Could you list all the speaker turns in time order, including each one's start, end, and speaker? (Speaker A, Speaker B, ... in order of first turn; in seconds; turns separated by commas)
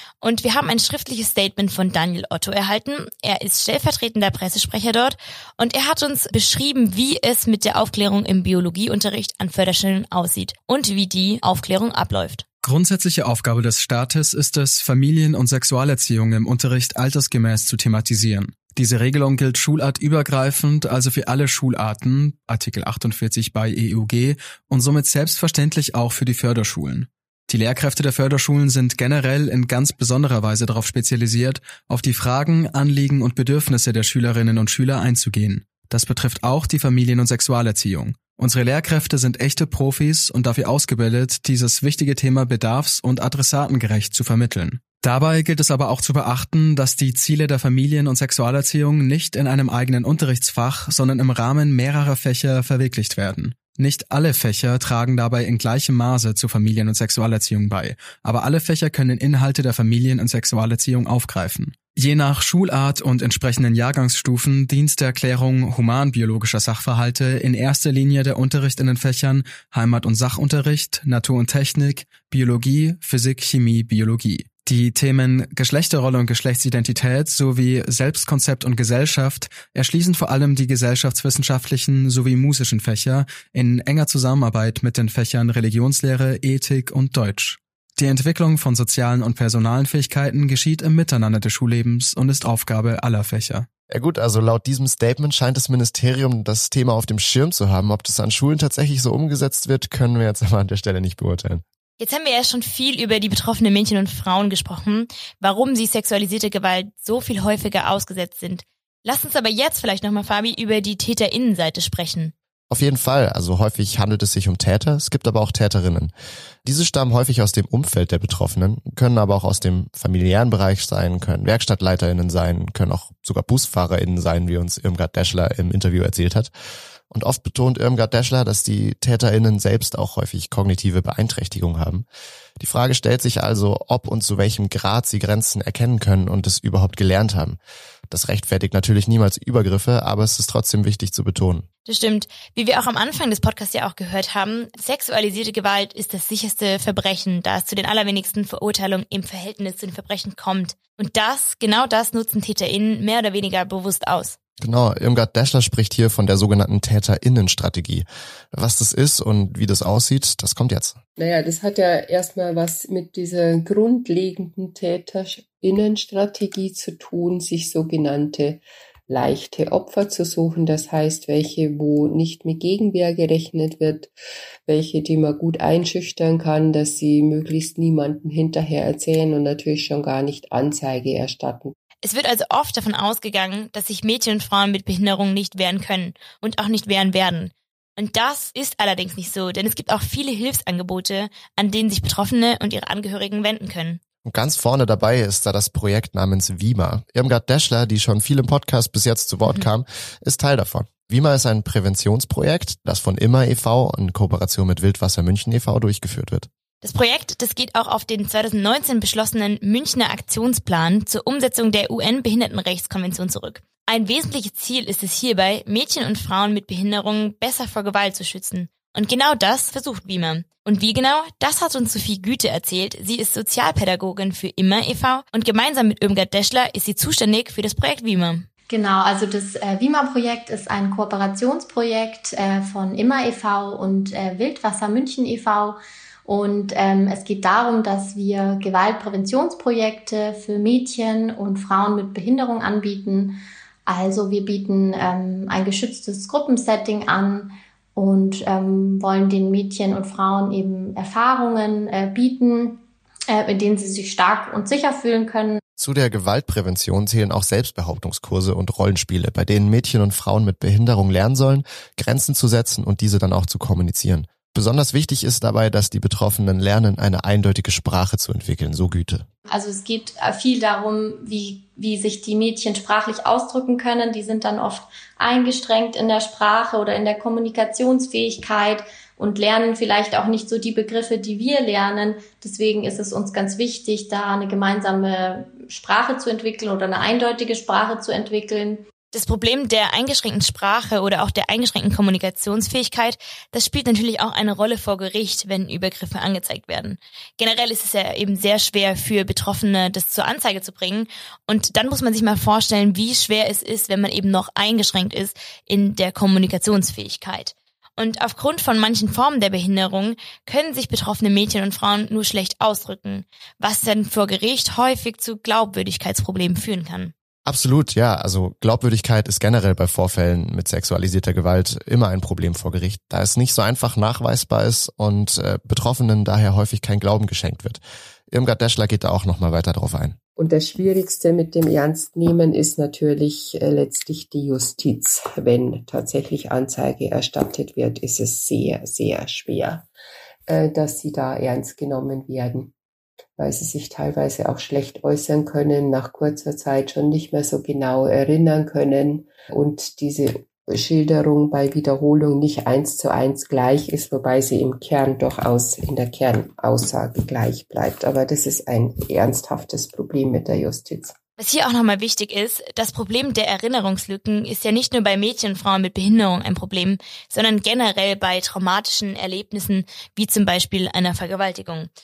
Speaker A: 0.2-12.4, Speaker B: 12.6-93.7, Speaker C: 93.9-101.6, Speaker A: 102.0-112.3, Speaker C: 112.7-116.1, Speaker C: 116.7-126.5, Speaker C: 127.1-132.1, Speaker C: 132.6-137.6, Speaker C: 138.1-141.7, Speaker A: 141.9-154.4, Speaker C: 154.6-161.0, Speaker D: 161.2-174.1, Speaker D: 174.7-181.8, Speaker A: 182.0-194.0, Speaker C: 194.2-206.5, Speaker A: 206.8-228.5, Speaker E: 228.7-255.6, Speaker C: 255.8-269.3, Speaker E: 269.5-288.8, Speaker A: 289.1-317.1, Speaker C: 317.5-330.2, Speaker D: 330.4-339.9, Speaker D: 340.5-342.7, Speaker D: 343.4-361.1, Speaker A: 361.4-371.9